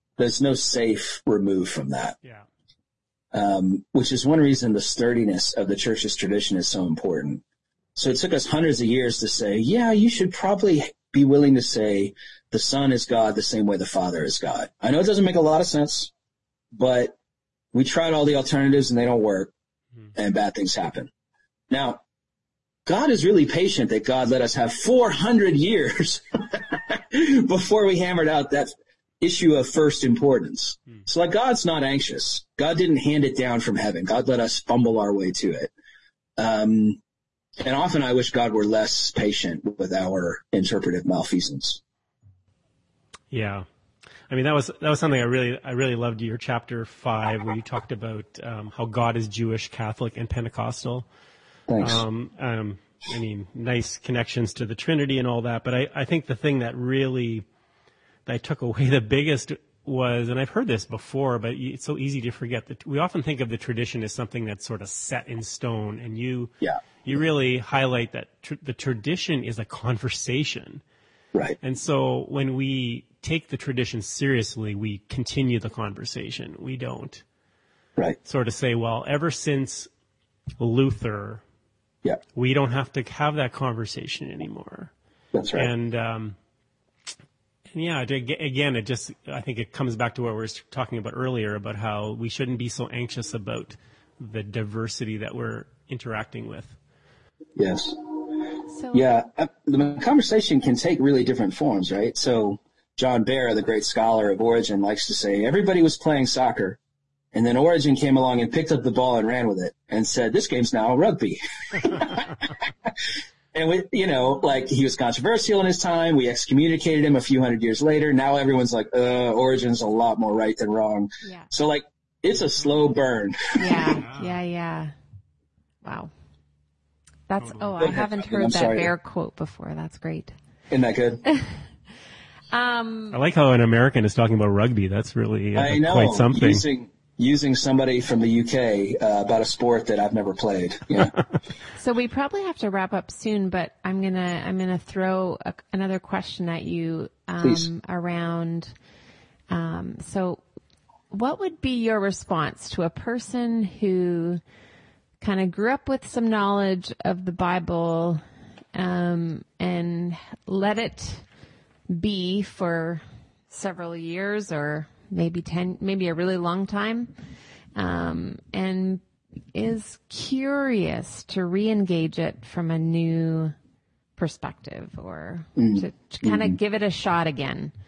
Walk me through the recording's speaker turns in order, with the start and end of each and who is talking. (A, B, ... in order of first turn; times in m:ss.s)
0:00.2-0:02.2 A
0:03.3-0:07.4 A
0:08.0-0:16.1 A
0:16.7-0:17.1 A
0:17.7-0:19.5 A
0:20.2-0:21.1 A
0:21.7-0:22.0 A
0:22.9-0:35.7 A
0:36.4-0:37.0 A
0:37.6-0:41.8 A
0:43.3-0:43.6 B
0:44.3-0:51.1 B
0:51.7-0:52.0 A
0:51.8-0:57.4 B
0:58.3-1:06.5 B
1:07.0-1:10.8 B
1:11.6-1:17.2 B
1:18.2-1:19.9 B
1:20.6-1:21.4 B
1:22.4-1:24.9 B
1:25.3-1:25.7 A
1:25.5-1:26.4 B
1:27.7-1:36.8 B
1:37.6-1:38.2 A
1:38.7-1:39.1 C
1:38.9-1:46.8 A
1:47.3-2:04.0 A
2:03.6-2:04.9 C
2:05.8-2:06.1 C
2:07.3-2:10.4 C
2:07.4-2:07.7 B
2:07.8-2:08.9 A
2:10.7-2:11.2 A
2:11.3-2:11.5 C
2:12.5-2:13.2 C
2:13.1-2:16.6 B
2:15.6-2:21.1 A
2:21.8-2:28.7 C
2:27.4-2:27.7 A
2:29.5-2:30.4 C
2:31.1-2:34.4 C
2:35.2-2:38.2 C
2:38.8-2:41.2 C
2:41.9-2:47.1 C
2:47.8-2:49.0 C
2:49.5-2:53.6 C
2:54.2-2:57.7 C
2:55.6-2:56.6 A